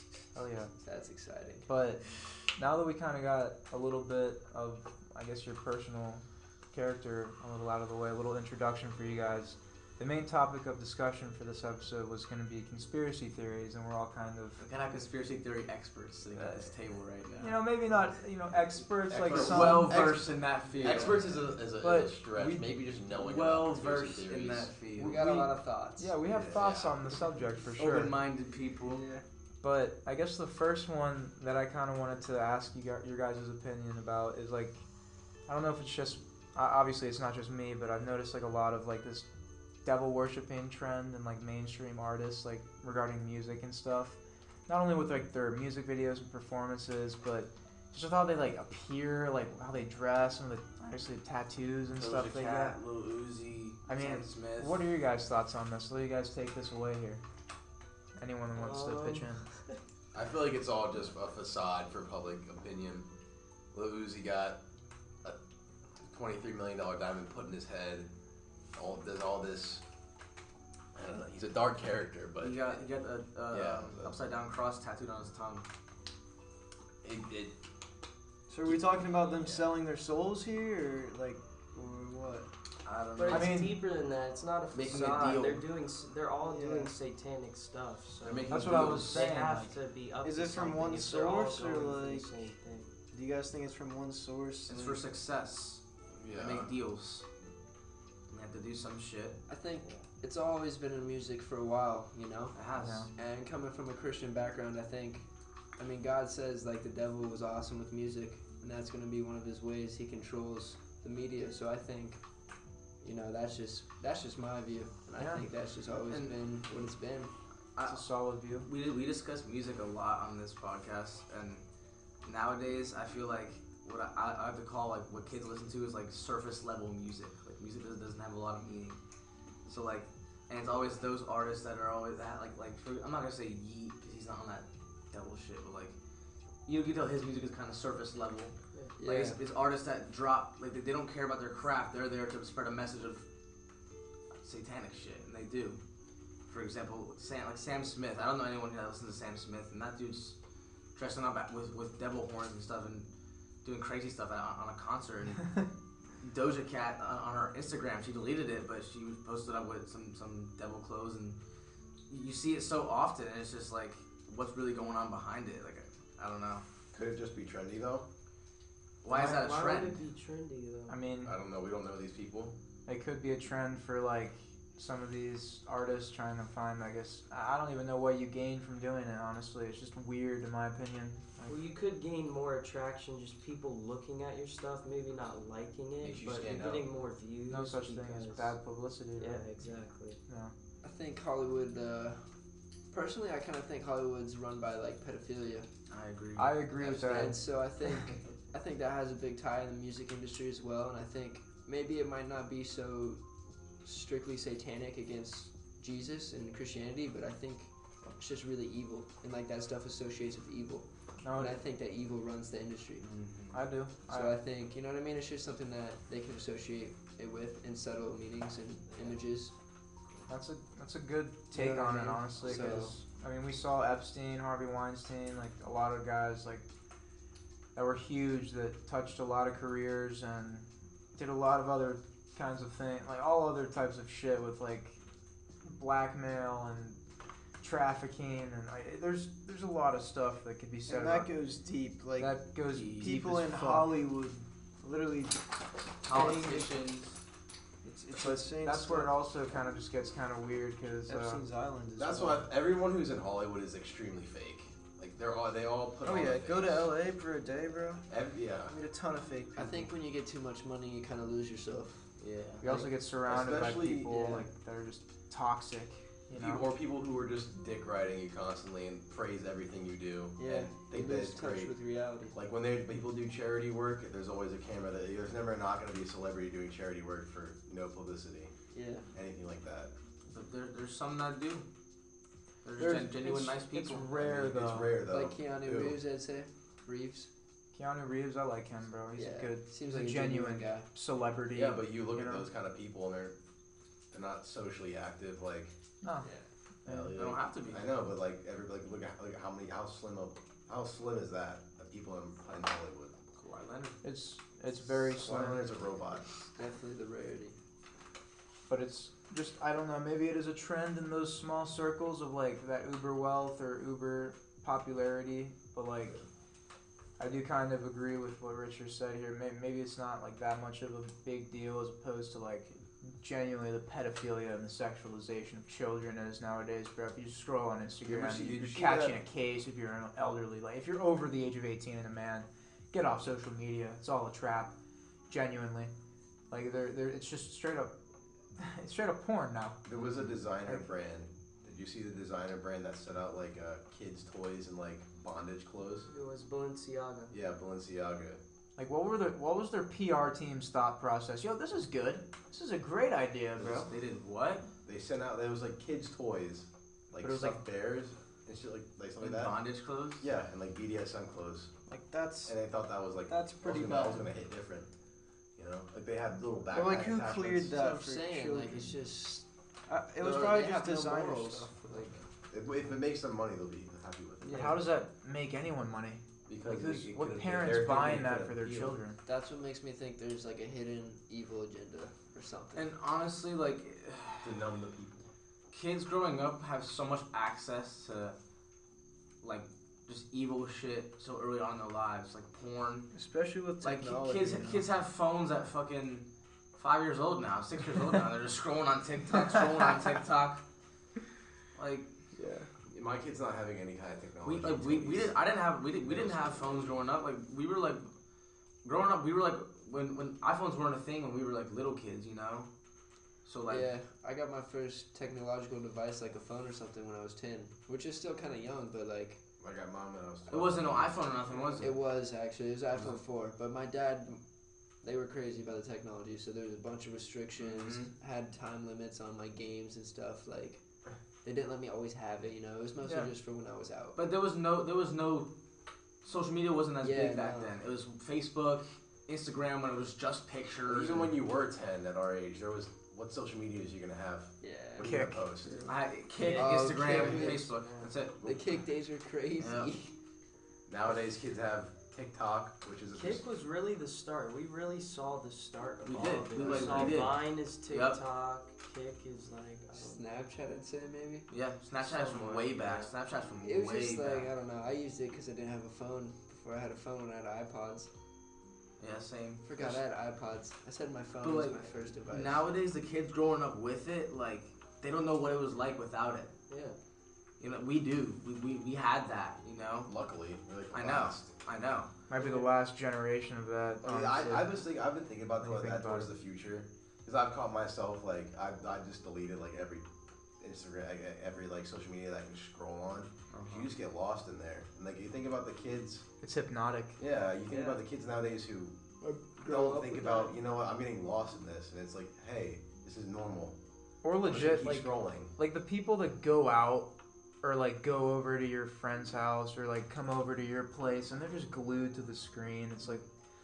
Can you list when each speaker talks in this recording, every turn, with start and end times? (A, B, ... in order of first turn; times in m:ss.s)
0:00.3-0:00.7 A
0:00.8-0:01.7 B
0:01.7-0:14.6 A
0:14.6-0:17.6 C
0:16.4-0:16.7 A
0:17.4-0:20.2 A
0:19.1-0:24.7 D
0:19.3-0:21.4 C
0:21.8-0:22.2 A
0:22.4-0:25.2 C
0:25.0-0:26.1 B
0:25.0-0:28.1 A
0:26.3-0:27.0 D
0:27.8-0:29.0 C
0:28.9-0:29.2 E
0:29.6-0:34.8 A
0:35.5-0:39.3 A
0:39.8-0:52.8 A
0:52.0-0:54.8 C
0:53.9-0:57.2 A
0:58.2-0:59.5 A
0:58.5-0:59.8 F
1:00.1-1:03.1 D
1:03.7-1:04.6 D
1:06.1-1:08.1 D
1:08.7-1:09.8 D
1:11.0-1:12.8 D
1:12.4-1:15.6 C
1:13.5-1:14.2 D
1:17.0-1:17.6 D
1:18.5-1:22.5 E
1:19.2-1:19.7 C
1:22.8-1:23.5 C
1:23.2-1:32.9 F
1:23.3-1:23.8 A
1:24.7-1:25.6 C
1:26.4-1:26.9 E
1:28.2-1:29.3 C
1:28.5-1:29.8 A
1:30.2-1:32.4 E
1:33.1-1:35.0 E
1:34.7-1:35.8 C
1:36.2-1:36.7 D
1:36.3-1:37.3 C
1:38.3-1:39.4 C
1:39.5-1:42.6 B
1:42.6-1:43.1 C
1:42.8-1:43.1 A
1:43.1-1:52.2 B
1:53.0-1:57.3 B
1:55.2-1:55.5 A
1:56.1-1:56.3 C
1:57.8-1:58.1 C
1:57.8-1:58.7 A
1:58.6-2:01.6 C
2:02.2-2:09.0 C
2:09.7-2:16.0 C
2:16.7-2:23.2 C
2:19.0-2:19.4 B
2:24.4-2:25.8 C
2:26.5-2:30.4 C
2:31.0-2:33.1 C
2:33.6-2:35.6 C
2:36.2-2:41.4 C
2:42.1-2:46.6 C
2:46.9-2:48.1 D
2:49.0-2:50.0 C
2:49.1-2:51.0 F
2:50.9-2:51.3 A
2:51.2-2:52.5 D
2:52.9-3:01.6 A
3:01.5-3:08.5 F
3:06.0-3:06.9 D
3:07.5-3:09.5 A
3:09.2-3:10.2 F
3:10.3-3:10.5 A
3:10.8-3:12.2 B
3:12.9-3:15.7 B
3:15.9-3:16.6 C
3:16.4-3:17.4 A
3:16.8-3:23.2 B
3:23.8-3:33.1 B
3:31.2-3:31.6 A
3:33.0-3:33.6 C
3:33.5-3:34.4 A
3:34.1-3:39.5 B
3:40.3-3:46.6 A
3:41.5-3:43.0 B
3:47.8-3:55.0 A
3:55.6-3:57.0 A
3:57.6-4:01.3 A
4:00.9-4:02.4 E
4:02.2-4:03.9 A
4:02.8-4:03.1 C
4:03.0-4:06.8 E
4:06.0-4:07.2 C
4:07.8-4:09.1 E
4:08.1-4:11.4 A
4:11.1-4:12.5 E
4:12.0-4:16.9 D
4:16.0-4:18.0 E
4:18.1-4:18.8 D
4:18.7-4:19.9 E
4:19.6-4:22.1 B
4:22.2-4:22.6 C
4:22.6-4:26.6 A
4:22.6-4:22.9 B
4:23.3-4:24.3 D
4:24.1-4:24.5 B
4:26.4-4:31.8 D
4:30.4-4:32.4 B
4:32.3-4:38.5 D
4:38.7-4:39.1 B
4:39.1-4:39.9 D
4:40.3-4:41.7 C
4:42.6-4:44.1 C
4:42.8-4:44.9 A
4:44.1-4:46.0 D
4:45.1-4:47.3 B
4:47.7-4:52.5 A
4:49.2-4:50.9 B
4:51.5-4:53.4 D
4:54.1-4:55.7 D
4:56.0-4:56.3 A
4:56.9-4:57.2 A
4:56.9-5:03.2 D
4:57.2-4:57.9 C
5:03.4-5:04.0 C
5:04.0-5:05.7 A
5:04.9-5:06.4 D
5:06.6-5:07.6 B
5:08.7-5:16.2 A
5:17.2-5:34.7 A
5:28.0-5:29.2 D
5:35.3-5:35.9 A
5:36.5-5:38.0 A
5:38.6-5:39.8 A
5:39.8-5:46.1 D
5:46.1-5:47.3 F
5:47.3-5:48.4 D
5:48.8-5:53.9 A
5:53.6-5:53.9 D
5:53.7-5:54.7 C
5:54.8-5:59.6 D
5:57.2-5:57.6 A
5:59.2-6:00.3 C
6:00.2-6:01.7 D
6:01.9-6:02.6 E
6:02.5-6:04.9 D
6:03.3-6:04.3 E
6:05.6-6:07.7 D
6:06.7-6:08.8 E
6:07.7-6:09.4 B
6:09.9-6:12.2 E
6:10.2-6:12.0 B
6:12.5-6:14.8 D
6:14.4-6:14.8 F
6:14.5-6:19.2 A
6:16.5-6:19.0 D
6:19.2-6:22.9 B
6:22.8-6:24.7 C
6:24.4-6:25.3 D
6:25.7-6:28.4 C
6:29.4-6:33.1 C
6:33.1-6:34.9 E
6:33.8-6:40.6 C
6:41.8-6:42.1 C
6:42.3-6:42.7 E
6:42.9-6:45.4 D
6:44.4-6:48.1 C
6:46.0-6:47.0 D
6:48.8-6:52.7 C
6:53.4-6:53.9 C
6:53.7-6:59.4 B
6:59.6-7:01.9 D
7:00.5-7:01.9 C
7:01.8-7:04.4 B
7:05.0-7:10.8 B
7:07.6-7:08.1 C
7:11.4-7:14.2 B
7:13.0-7:13.3 A
7:14.2-7:15.5 C
7:16.2-7:21.4 C
7:17.0-7:17.8 B
7:20.9-7:25.8 D
7:24.6-7:25.1 B
7:25.0-7:25.5 A
7:25.8-7:28.7 C
7:26.4-7:28.1 F
7:26.5-7:27.7 B
7:28.4-7:30.1 B
7:29.6-7:29.9 C
7:30.9-7:33.5 D
7:33.1-7:40.2 F
7:36.1-7:38.2 C
7:36.1-7:37.3 D
7:39.9-7:41.5 B
7:41.5-7:44.5 C
7:42.0-7:43.1 F
7:43.6-7:48.1 B
7:49.0-7:50.0 C
7:49.6-7:52.6 B
7:51.4-7:56.5 C
7:56.7-7:57.0 F
7:57.6-8:00.1 C
8:00.0-8:01.5 D
8:00.9-8:02.1 C
8:02.3-8:04.7 A
8:02.4-8:02.7 F
8:04.0-8:10.1 D
8:05.6-8:06.3 A
8:10.6-8:16.2 D
8:13.5-8:13.9 C
8:16.4-8:17.2 A
8:17.2-8:19.0 D
8:17.7-8:18.0 F
8:19.2-8:20.5 E
8:19.6-8:23.8 D
8:24.2-8:27.1 A
8:24.4-8:25.5 D
8:27.6-8:33.2 A